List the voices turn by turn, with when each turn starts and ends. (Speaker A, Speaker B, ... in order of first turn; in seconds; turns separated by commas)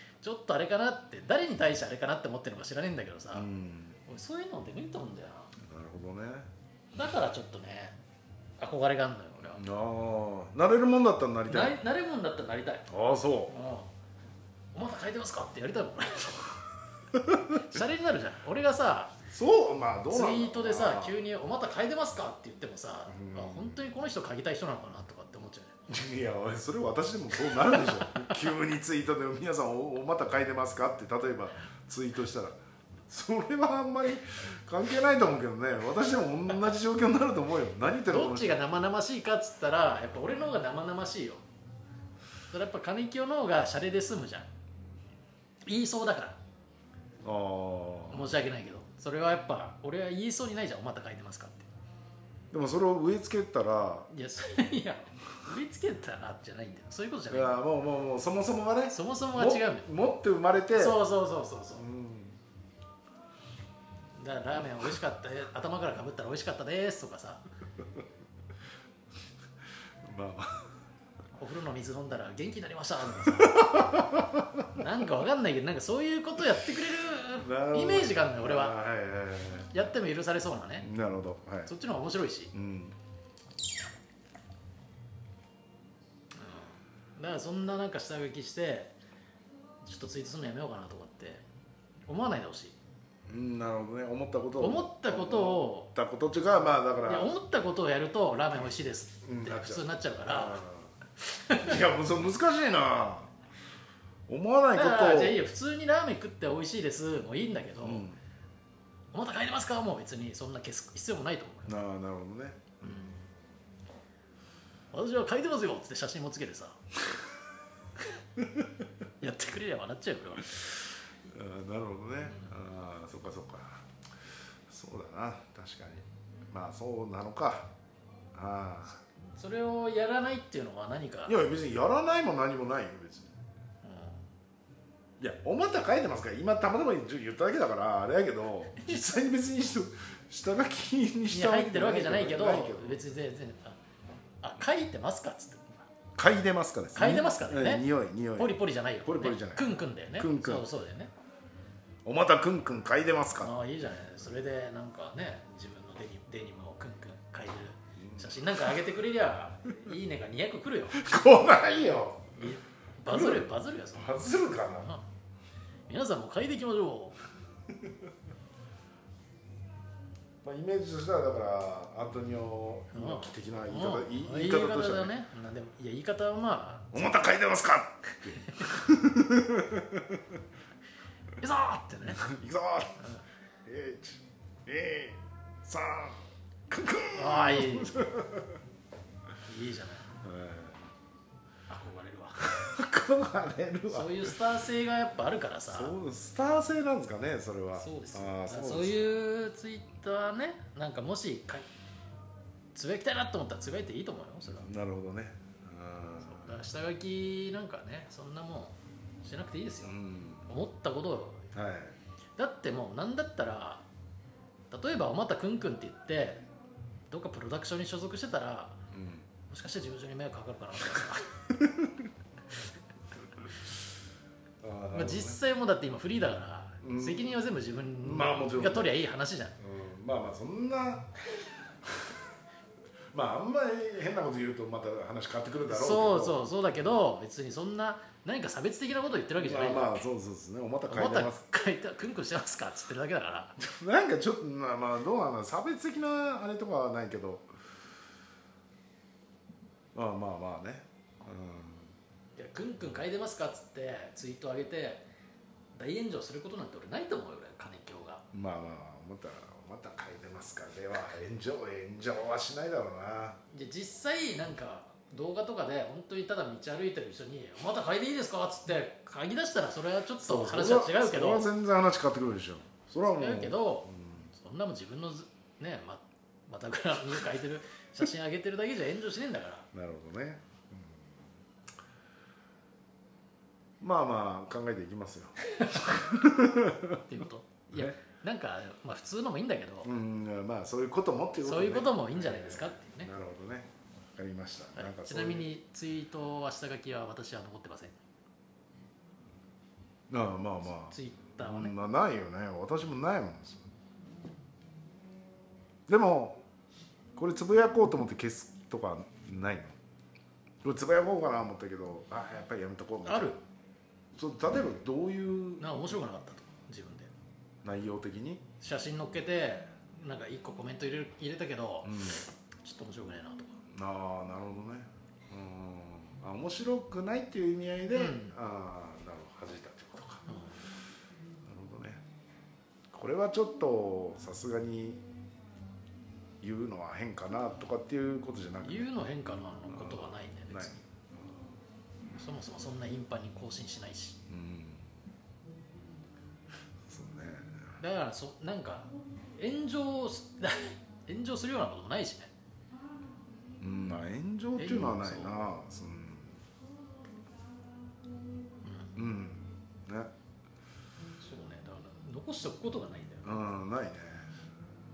Speaker A: 0.2-3.5, Speaker B: 3.3-4.0, Speaker A: 4.1-5.5, Speaker B: 5.6-6.5, Speaker A: 6.9-8.0, Speaker A: 8.6-9.6, Speaker B: 9.5-11.8, Speaker A: 11.5-12.9, Speaker B: 12.9-13.6, Speaker A: 13.5-13.9, Speaker A: 14.7-16.6, Speaker B: 17.1-17.6, Speaker A: 17.6-19.2, Speaker B: 19.2-21.2, Speaker A: 20.1-25.7, Speaker B: 23.1-23.8, Speaker B: 25.9-38.5, Speaker A: 27.5-28.4, Speaker A: 38.0-41.4, Speaker A: 42.5-44.5, Speaker A: 45.6-46.4, Speaker B: 47.2-48.4, Speaker A: 48.1-51.7, Speaker B: 52.5-54.1, Speaker A: 54.1-57.6, Speaker B: 57.3-61.0, Speaker A: 58.9-59.9, Speaker A: 60.7-61.9, Speaker B: 61.7-62.4, Speaker A: 64.2-67.4, Speaker B: 70.0-70.7, Speaker A: 71.4-74.0, Speaker B: 73.2-74.8, Speaker A: 74.7-78.8, Speaker B: 77.3-79.9, Speaker A: 79.6-80.9, Speaker B: 80.8-81.7, Speaker A: 81.7-82.5, Speaker B: 82.5-82.9, Speaker A: 86.3-88.9, Speaker A: 89.8-91.4, Speaker A: 92.1-92.8, Speaker B: 93.3-97.3, Speaker A: 94.6-95.9, Speaker A: 97.0-100.6, Speaker B: 99.2-100.9, Speaker A: 101.2-101.8, Speaker B: 101.6-103.3, Speaker B: 104.3-105.4, Speaker A: 104.7-108.1, Speaker B: 107.8-108.2, Speaker A: 109.1-111.8, Speaker B: 111.7-113.2, Speaker A: 112.8-113.1, Speaker A: 114.9-116.8, Speaker B: 118.4-118.7, Speaker A: 119.2-120.8, Speaker B: 121.2-123.9, Speaker B: 124.7-127.7, Speaker B: 128.3-129.0, Speaker A: 129.4-131.4, Speaker B: 131.2-133.3, Speaker A: 133.8-134.2, Speaker B: 135.2-143.0, Speaker A: 138.8-139.2, Speaker A: 141.3-143.8, Speaker A: 144.4-145.8, Speaker B: 146.1-150.7, Speaker A: 146.9-151.1, Speaker B: 152.0-153.6, Speaker A: 153.4-161.4, Speaker B: 158.0-158.3, Speaker B: 160.9-162.4, Speaker A: 162.3-164.2, Speaker B: 163.1-165.0, Speaker A: 165.9-167.2, Speaker B: 170.4-175.2, Speaker A: 172.9-177.2, Speaker B: 176.9-180.4, Speaker A: 178.4-178.6, Speaker A: 181.4-182.2, Speaker B: 182.1-183.1, Speaker B: 183.6-188.6, Speaker A: 187.1-188.0, Speaker A: 189.4-190.1, Speaker B: 190.1-190.9, Speaker A: 191.7-192.6, Speaker B: 192.4-194.4, Speaker A: 193.9-195.9, Speaker B: 195.7-199.1, Speaker A: 197.7-201.6, Speaker A: 202.7-204.7, Speaker B: 204.6-206.6, Speaker A: 206.2-209.9, Speaker B: 209.8-210.5, Speaker A: 210.5-211.5, Speaker B: 211.5-212.0, Speaker A: 212.4-213.8, Speaker A: 214.7-216.5, Speaker A: 217.1-218.8, Speaker B: 218.9-219.3, Speaker A: 219.5-221.3, Speaker B: 221.5-221.9, Speaker B: 224.6-225.4, Speaker A: 224.9-229.6, Speaker B: 226.8-227.4, Speaker B: 228.0-229.0, Speaker B: 229.6-232.1, Speaker B: 233.1-236.4, Speaker A: 235.7-240.1, Speaker B: 239.3-241.4, Speaker A: 240.9-243.6, Speaker B: 243.6-247.5, Speaker B: 249.9-251.9, Speaker A: 252.4-255.0, Speaker A: 255.8-258.2, Speaker B: 258.3-263.4, Speaker A: 263.5-271.5, Speaker B: 270.2-274.3, Speaker A: 273.1-279.7, Speaker B: 279.7-281.2, Speaker B: 283.8-287.0, Speaker A: 285.5-286.4, Speaker A: 286.9-289.9, Speaker B: 287.7-288.0, Speaker B: 289.8-295.5, Speaker A: 291.4-293.1, Speaker A: 294.7-297.9, Speaker B: 300.1-303.6, Speaker A: 300.8-301.7, Speaker B: 305.9-306.4, Speaker B: 307.1-309.7, Speaker B: 310.6-313.3, Speaker A: 313.1-313.4, Speaker B: 314.1-315.9, Speaker A: 315.6-317.1, Speaker B: 317.6-318.4, Speaker A: 318.6-323.5, Speaker B: 321.8-322.2, Speaker B: 323.7-330.3, Speaker A: 327.9-328.4, Speaker A: 330.3-330.7, Speaker B: 331.4-332.0, Speaker B: 332.9-335.0, Speaker B: 336.4-338.9, Speaker A: 338.6-340.8, Speaker B: 339.7-341.5, Speaker A: 342.2-344.2, Speaker B: 344.3-344.9, Speaker B: 346.9-347.7, Speaker A: 347.8-352.3, Speaker B: 353.6-356.4, Speaker A: 354.6-355.5, Speaker A: 358.6-359.0, Speaker B: 358.9-360.1, Speaker A: 361.2-363.4, Speaker B: 363.2-364.3